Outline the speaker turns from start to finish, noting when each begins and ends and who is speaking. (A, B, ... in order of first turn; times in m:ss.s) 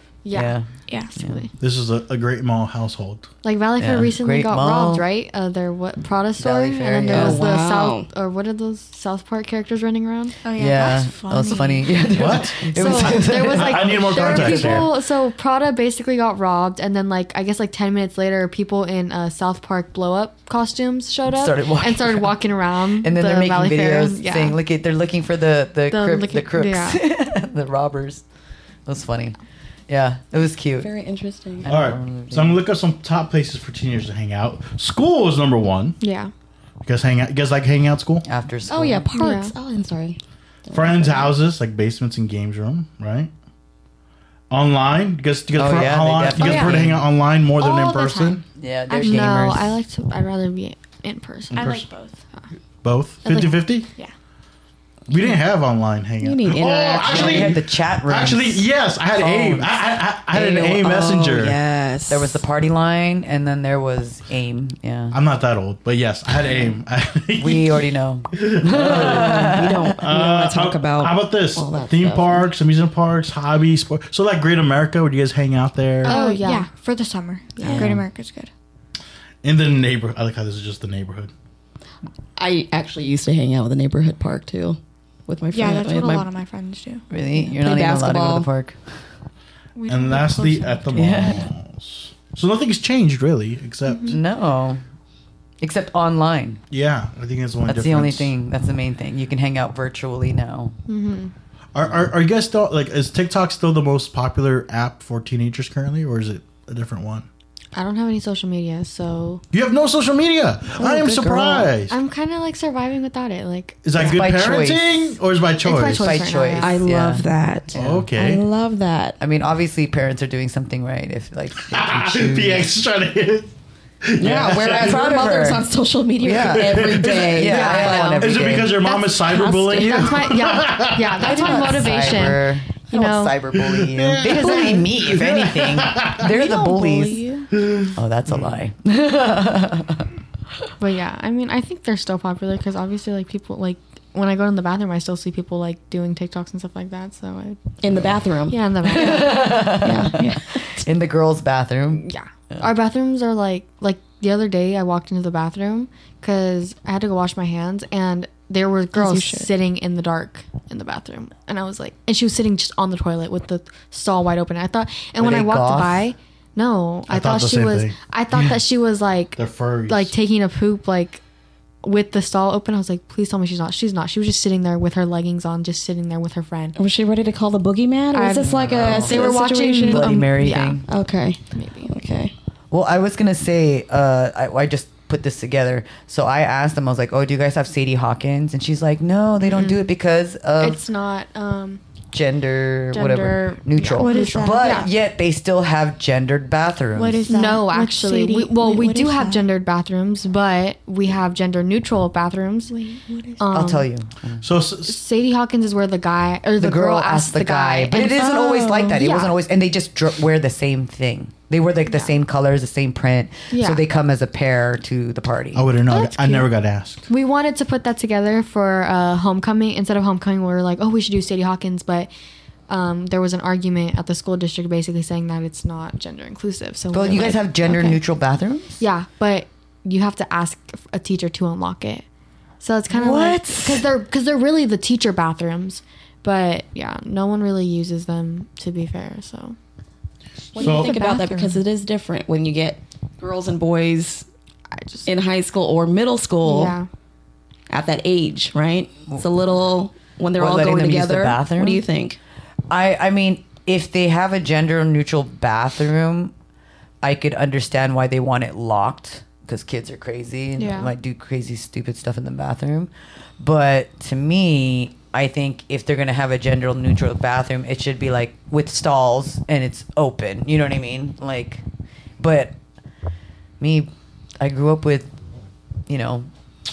0:00.2-0:00.6 A
0:00.3-0:01.4 B
0:00.9-0:01.2 C
0:01.2-0:01.5 A
0:01.6-0:03.3 D
0:03.4-0:10.4 A
0:03.8-0:05.0 B
0:06.4-0:07.5 B
0:07.1-0:08.1 E
0:10.4-0:11.9 C
0:10.6-0:14.9 B
0:12.1-0:15.0 D
0:12.6-0:24.6 A
0:21.3-0:28.2 B
0:25.9-0:27.0 A
0:28.9-0:29.4 B
0:29.9-0:30.9 B
0:30.8-0:31.7 E
0:31.6-0:32.6 B
0:31.7-0:36.0 D
0:36.0-0:36.3 A
0:36.8-0:38.3 D
0:38.2-0:39.1 B
0:38.7-0:41.3 E
0:39.1-0:39.5 A
0:40.7-0:43.3 D
0:44.5-0:48.4 D
0:45.6-0:47.1 B
0:46.4-0:46.8 A
0:46.4-0:46.7 C
0:47.6-0:48.4 A
0:48.6-0:49.8 B
0:48.9-0:51.7 A
0:51.5-0:51.9 D
0:51.5-0:52.2 C
0:52.8-0:53.9 D
0:53.2-0:53.6 A
0:55.1-1:01.6 D
0:56.2-0:57.6 E
0:57.0-0:59.9 B
1:00.3-1:02.4 E
1:02.1-1:05.2 B
1:05.1-1:07.8 D
1:07.4-1:09.9 B
1:08.3-1:16.2 D
1:08.8-1:12.5 E
1:16.0-1:18.5 C
1:16.0-1:16.7 A
1:17.6-1:17.9 E
1:17.6-1:17.9 A
1:17.7-1:18.0 B
1:19.4-1:21.3 D
1:22.4-1:26.3 E
1:25.5-1:27.1 C
1:27.1-1:28.8 B
1:27.6-1:28.5 E
1:29.8-1:31.3 C
1:29.9-1:34.2 D
1:30.9-1:31.5 B
1:33.9-1:34.2 A
1:34.1-1:34.8 B
1:35.6-1:36.6 B
1:36.7-1:38.3 D
1:37.7-1:40.8 B
1:40.9-1:41.3 A
1:41.7-1:47.3 D
1:47.7-1:49.4 A
1:49.5-1:52.0 D
1:50.8-1:51.7 E
1:51.9-1:54.1 A
1:53.8-1:56.3 D
1:54.0-1:55.2 B
1:55.6-1:56.8 A
1:55.9-1:58.0 B
1:56.6-1:59.2 E
1:57.8-1:58.4 D
1:59.2-2:02.7 B
2:01.7-2:03.5 D
2:04.0-2:05.1 D
2:04.2-2:08.2 E
2:04.2-2:05.7 B
2:06.2-2:08.8 B
2:06.6-2:07.4 D
2:07.4-2:13.4 A
2:08.2-2:11.4 D
2:11.2-2:17.3 B
2:11.2-2:11.8 C
2:13.6-2:16.3 D
2:14.3-2:14.8 A
2:16.2-2:17.5 C
2:17.6-2:18.6 D
2:17.9-2:20.1 B
2:20.8-2:27.6 A
2:27.8-2:30.8 E
2:28.5-2:29.5 A
2:28.9-2:32.7 B
2:31.9-2:51.2 A
2:38.9-2:39.5 E
2:45.2-2:46.1 B
2:47.1-2:48.0 D
2:49.4-2:50.1 D
2:51.8-2:56.8 A
2:56.8-3:02.3 E
2:58.1-3:00.8 A
2:58.5-3:00.9 B
3:01.6-3:01.9 A
3:02.7-3:10.8 B
3:09.5-3:09.9 A
3:10.6-3:11.8 A
3:12.1-3:17.3 B
3:12.9-3:14.9 A
3:14.0-3:14.9 C
3:17.0-3:19.5 C
3:17.3-3:22.8 A
3:22.7-3:23.5 C
3:23.4-3:23.9 A
3:23.5-3:24.5 B
3:24.4-3:25.0 D
3:24.9-3:29.4 A
3:26.6-3:35.7 B
3:27.9-3:29.0 C
3:33.5-3:33.8 A
3:35.5-3:37.1 D
3:35.9-3:36.5 A
3:37.1-3:42.1 A
3:42.7-3:48.0 A
3:46.9-3:48.8 B
3:48.8-3:52.0 A
3:52.6-3:59.6 A
3:52.9-3:53.9 B
4:00.5-4:01.6 C
4:00.6-4:04.3 E
4:00.6-4:00.9 D
4:04.7-4:05.1 A
4:05.1-4:06.8 E
4:06.4-4:06.9 A
4:07.7-4:12.2 E
4:10.4-4:11.8 B
4:12.7-4:16.3 B
4:17.0-4:31.6 B
4:20.6-4:20.9 A
4:32.2-4:32.6 B
4:33.6-4:35.1 B
4:35.9-4:36.3 B